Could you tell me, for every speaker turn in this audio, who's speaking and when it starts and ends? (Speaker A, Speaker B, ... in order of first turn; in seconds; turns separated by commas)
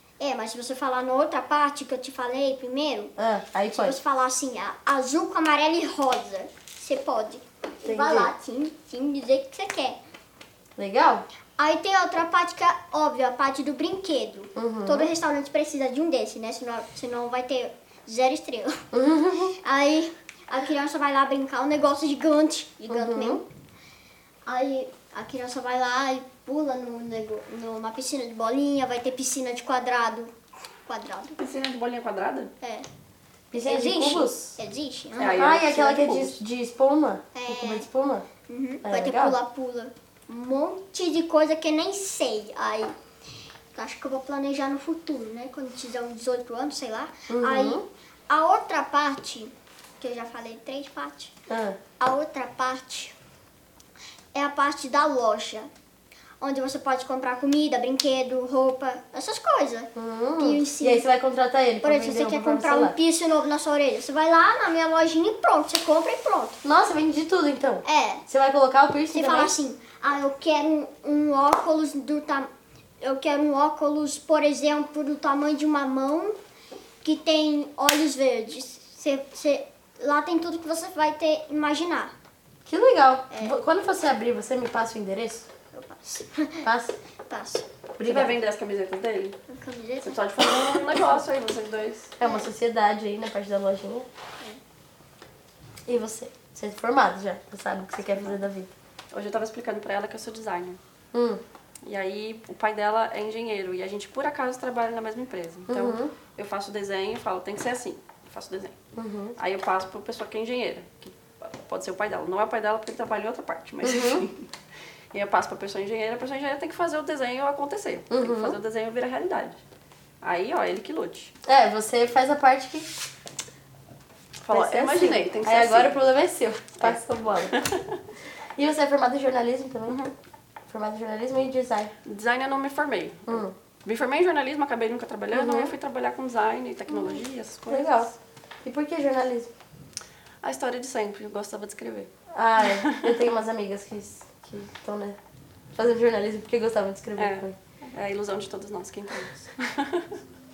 Speaker A: 0.2-3.1, Speaker B: 3.2-4.0, Speaker A: 3.6-10.0, Speaker B: 7.8-8.3, Speaker B: 10.8-11.2, Speaker A: 11.6-18.8, Speaker B: 14.6-15.1, Speaker B: 18.9-19.5, Speaker A: 19.6-23.4, Speaker B: 22.9-23.4, Speaker A: 24.4-30.3, Speaker A: 30.9-31.4, Speaker C: 31.4-32.5, Speaker A: 32.6-32.9, Speaker B: 33.5-34.6, Speaker A: 33.5-35.4, Speaker C: 35.2-36.4, Speaker B: 35.2-38.3, Speaker A: 37.3-37.9, Speaker A: 38.5-42.9, Speaker B: 38.8-39.4, Speaker A: 43.7-51.3, Speaker B: 47.3-47.8, Speaker B: 51.5-51.8, Speaker A: 52.0-53.1, Speaker A: 54.3-55.7, Speaker A: 56.4-61.0, Speaker B: 59.9-63.0, Speaker A: 61.8-66.6, Speaker B: 66.6-69.5, Speaker A: 67.8-68.2, Speaker A: 69.1-72.5, Speaker A: 73.0-76.3, Speaker A: 77.0-82.1, Speaker B: 82.7-85.5, Speaker A: 83.3-83.6, Speaker A: 85.7-86.7, Speaker B: 86.6-86.9, Speaker A: 87.3-87.7, Speaker B: 88.0-88.4, Speaker C: 88.0-89.4, Speaker A: 89.5-90.2, Speaker C: 90.0-92.1, Speaker B: 92.2-94.1, Speaker A: 92.2-92.5, Speaker B: 95.8-98.7, Speaker C: 99.1-100.8, Speaker B: 101.1-101.4, Speaker C: 101.8-108.7, Speaker B: 105.7-106.1, Speaker B: 108.9-109.4, Speaker C: 109.4-114.5, Speaker B: 113.8-114.3, Speaker C: 115.1-119.6, Speaker B: 118.1-118.6, Speaker C: 120.2-121.3, Speaker B: 121.4-122.9, Speaker C: 124.4-126.0, Speaker B: 124.5-127.6, Speaker C: 126.8-128.0, Speaker B: 128.6-130.0, Speaker C: 129.9-130.1, Speaker B: 130.7-131.9, Speaker C: 132.0-138.0, Speaker B: 133.3-133.5, Speaker B: 135.3-135.7, Speaker B: 137.7-139.5, Speaker C: 140.4-142.1, Speaker B: 142.3-145.2, Speaker C: 142.6-143.1, Speaker B: 145.7-147.6, Speaker C: 147.2-150.2